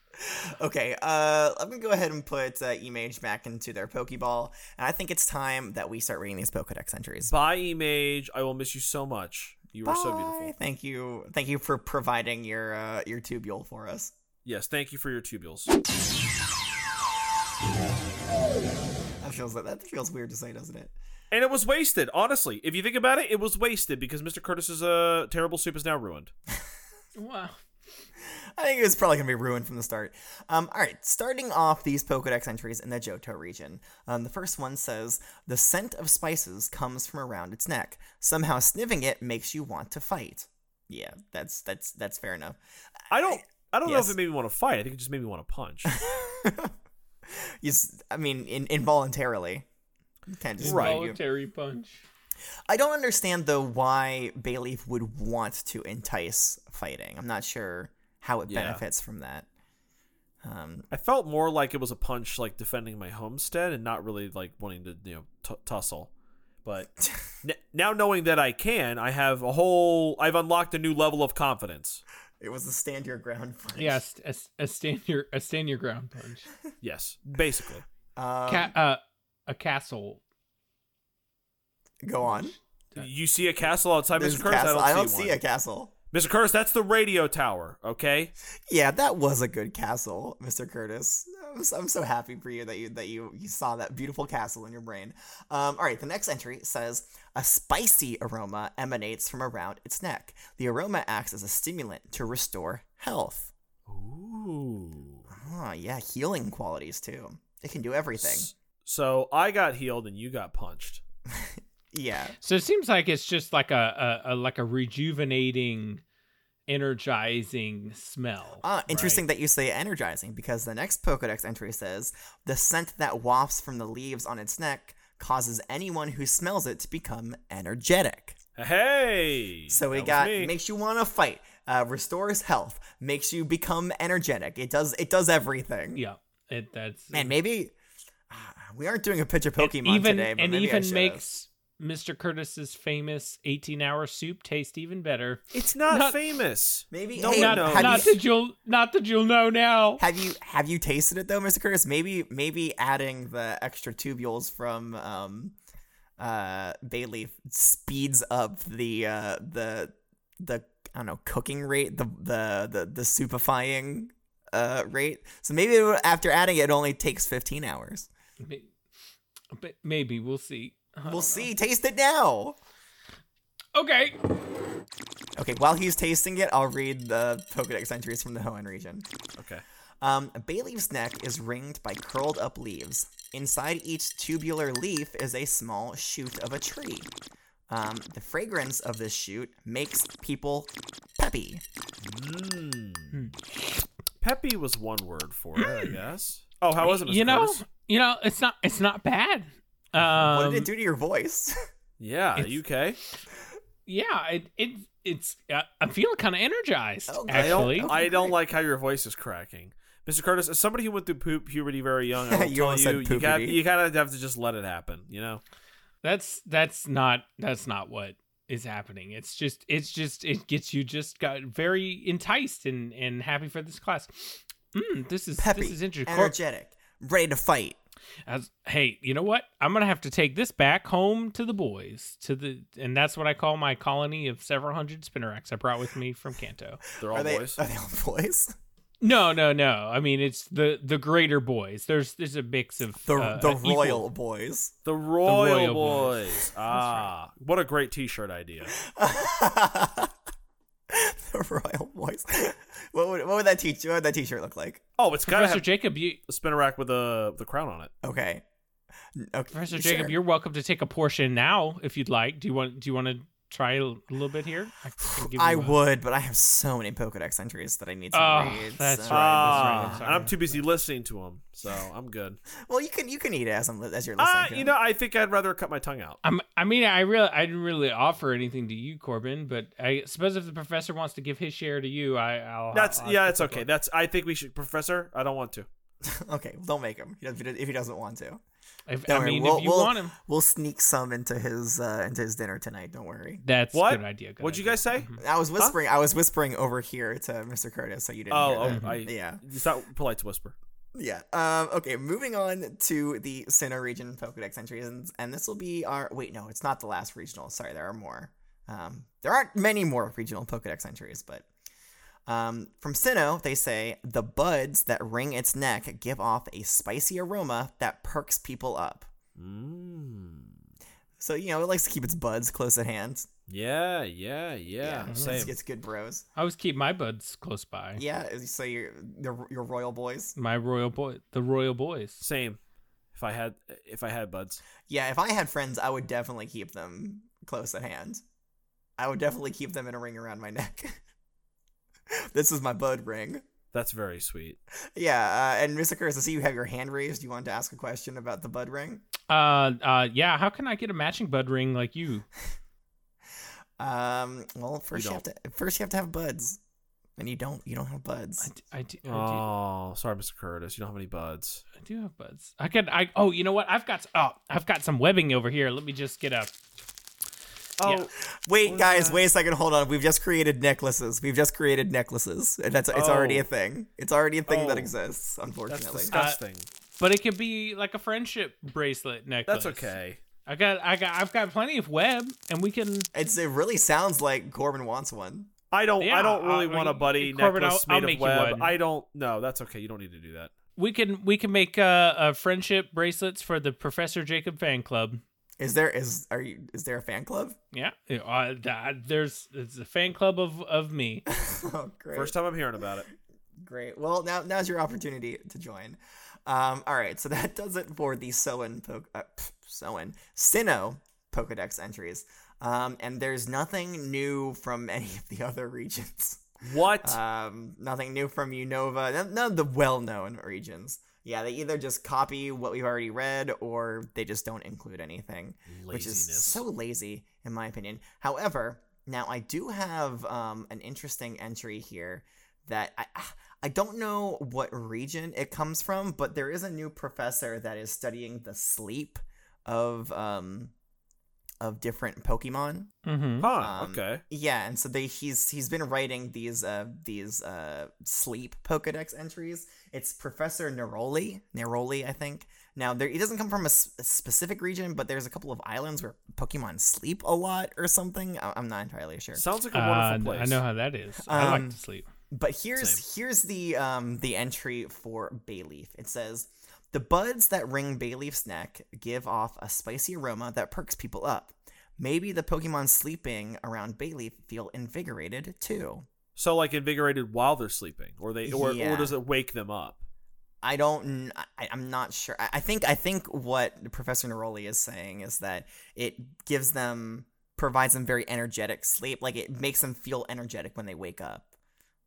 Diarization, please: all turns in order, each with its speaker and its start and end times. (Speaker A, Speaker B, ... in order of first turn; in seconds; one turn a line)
Speaker A: 0.2-7.3
Speaker B: 7.3-10.5
Speaker A: 9.8-14.1
Speaker B: 14.4-15.7
Speaker A: 19.2-20.9
Speaker B: 21.3-26.3
Speaker C: 27.1-27.6
Speaker A: 28.2-42.6
Speaker B: 43.1-46.0
Speaker A: 43.3-44.1
Speaker A: 45.9-46.7
Speaker A: 47.3-49.7
Speaker A: 50.3-51.2
Speaker C: 50.6-52.0
Speaker B: 50.6-51.0
Speaker A: 52.7-59.5
Speaker B: 58.5-58.8
Speaker A: 60.4-60.9
Speaker B: 60.9-66.1
Speaker B: 66.6-66.9
Speaker A: 67.0-67.3
Speaker B: 67.4-72.0
Speaker A: 72.4-74.0
Speaker C: 73.8-76.5
Speaker B: 76.8-77.8
Speaker A: 78.2-78.7
Speaker C: 78.5-80.2
Speaker A: 82.0-82.5
Speaker C: 82.2-83.1
Speaker B: 83.0-85.4
Speaker A: 84.2-85.9
Speaker B: 86.1-88.3
Speaker A: 88.7-103.5
Speaker B: 103.9-105.3
Speaker A: 105.3-108.5
Speaker B: 108.2-111.0
Speaker A: 111.3-112.4
Speaker C: 112.4-116.0
Speaker C: 116.7-119.2
Speaker A: 118.6-128.4
Speaker B: 128.6-130.5
Speaker A: 129.7-136.0
Speaker C: 135.9-137.3
Speaker A: 137.1-137.8
Speaker A: 138.3-141.2
Speaker C: 139.6-146.2
Speaker B: 145.5-148.1
Speaker A: 146.9-148.2
Speaker C: 147.2-150.0
Speaker A: 150.0-155.6
Speaker A: 156.2-168.1
Speaker C: 168.4-168.7
Speaker C: 169.5-171.5
Speaker A: 171.1-172.6
Speaker C: 173.8-174.2
Speaker A: 175.4-179.1
Speaker B: 179.4-179.6
Speaker A: 180.0-187.1
Speaker A: 187.7-191.6
Speaker B: 192.0-193.2
Speaker B: 194.2-197.6
Speaker C: 195.6-196.0
Speaker C: 196.8-200.7
Speaker A: 200.1-201.5
Speaker B: 202.0-203.0
Speaker C: 203.9-207.9
Speaker A: 207.1-208.3
Speaker B: 207.3-215.4
Speaker A: 212.3-213.6
Speaker C: 216.0-226.3
Speaker A: 225.4-227.8
Speaker C: 228.3-236.8
Speaker B: 237.0-237.6
Speaker A: 237.0-238.5
Speaker C: 239.0-244.1
Speaker A: 243.0-244.7
Speaker B: 244.8-248.8
Speaker C: 245.2-247.1
Speaker A: 248.8-250.1
Speaker A: 250.9-254.8
Speaker B: 255.0-257.9
Speaker C: 255.3-256.2
Speaker A: 258.0-258.4
Speaker A: 259.2-260.1
Speaker C: 259.5-265.8
Speaker A: 265.0-270.2
Speaker C: 268.1-270.6
Speaker B: 269.1-272.4
Speaker A: 272.6-274.7
Speaker B: 274.2-276.2
Speaker C: 276.2-283.7
Speaker B: 282.7-285.7
Speaker A: 286.0-288.4
Speaker C: 288.9-290.2
Speaker A: 289.1-293.4
Speaker C: 293.4-295.2
Speaker B: 293.7-295.8
Speaker A: 295.2-299.4
Speaker B: 298.3-300.6
Speaker C: 298.7-299.0
Speaker A: 300.9-311.5
Speaker A: 312.3-319.1
Speaker B: 319.4-320.6
Speaker A: 321.2-323.3
Speaker B: 323.5-325.6
Speaker A: 324.8-326.2
Speaker C: 325.1-325.5
Speaker C: 326.4-328.0
Speaker A: 328.0-330.4
Speaker C: 330.4-332.2
Speaker B: 332.2-332.6
Speaker B: 333.1-334.6
Speaker A: 334.9-338.2
Speaker A: 339.0-341.0
Speaker A: 342.1-343.4
Speaker B: 343.7-344.6
Speaker A: 344.9-349.0
Speaker C: 349.3-352.3
Speaker A: 353.8-356.6
Speaker B: 354.9-355.2
Speaker A: 357.2-358.5
Speaker C: 358.4-359.5
Speaker B: 359.1-361.6
Speaker C: 361.8-366.5
Speaker B: 367.8-369.2
Speaker A: 368.3-376.2
Speaker B: 372.9-373.5
Speaker B: 374.5-374.9
Speaker B: 375.7-376.7
Speaker C: 376.1-376.4
Speaker C: 377.0-379.9
Speaker B: 379.5-380.2
Speaker C: 380.5-383.1
Speaker A: 383.1-385.5
Speaker B: 385.7-390.5
Speaker C: 386.0-388.8
Speaker C: 390.8-395.2
Speaker A: 395.6-397.6
Speaker C: 397.7-401.3
Speaker A: 401.3-402.4
Speaker B: 402.1-403.1
Speaker A: 403.6-416.5
Speaker B: 416.6-417.2
Speaker A: 417.0-440.7
Speaker B: 425.7-426.6
Speaker A: 441.6-442.9
Speaker C: 443.1-443.5
Speaker B: 443.4-444.2
Speaker A: 443.6-459.4
Speaker B: 459.3-460.6
Speaker C: 459.7-462.1
Speaker A: 461.3-461.8
Speaker A: 462.3-476.1
Speaker B: 462.8-463.0
Speaker B: 476.4-480.0
Speaker A: 478.4-479.2
Speaker A: 480.6-491.5